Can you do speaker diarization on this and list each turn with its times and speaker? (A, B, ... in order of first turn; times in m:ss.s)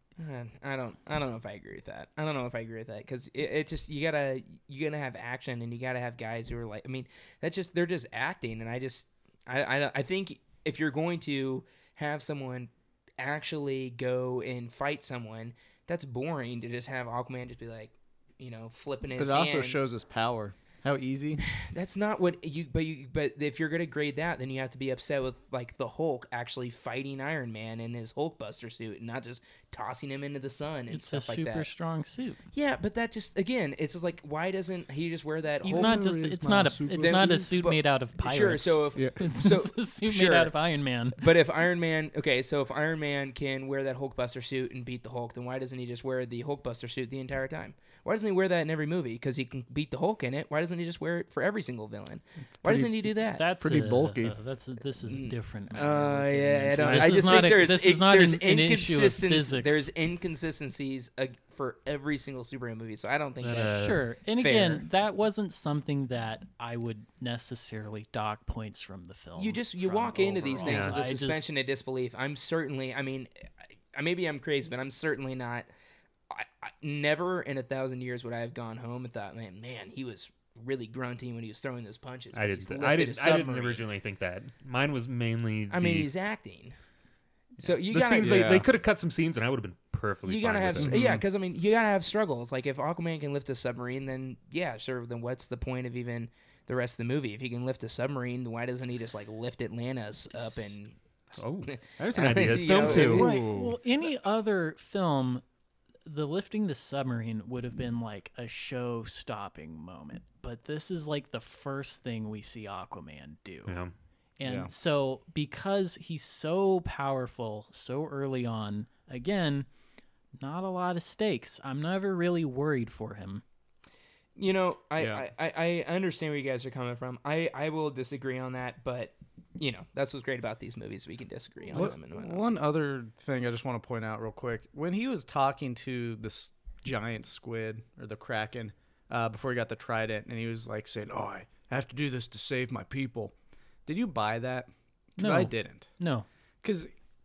0:00.2-0:19.9 A
0:19.2-0:21.4 B
0:21.5-0:31.7 A
0:30.9-0:32.4 C
0:32.5-0:36.1 A
0:35.6-0:41.3 C
0:35.7-0:37.5 B
0:37.0-0:53.4 A
0:52.5-0:54.4 B
0:53.3-0:59.9 C
0:55.1-1:04.8 A
0:56.8-0:57.6 D
1:03.4-1:04.0 D
1:03.4-1:11.5 C
1:09.4-1:15.7 A
1:10.6-1:11.0 D
1:16.3-1:23.8 A
1:22.3-1:26.1 D
1:25.7-1:26.8 A
1:27.6-1:28.6 A
1:27.6-1:31.0 D
1:28.2-1:28.7 B
1:30.3-1:43.4 A
1:30.8-1:31.2 B
1:40.3-1:40.8 C
1:41.4-1:43.4 D
1:42.8-1:45.5 C
1:42.9-1:43.8 B
1:46.0-1:59.7 C
1:53.7-1:53.9 D
1:54.4-1:54.7 B
2:00.4-2:03.4 C
2:04.4-2:12.5 A
2:05.0-2:05.2 B
2:11.7-2:26.1 B
2:25.2-2:26.3 C
2:26.6-2:27.0 B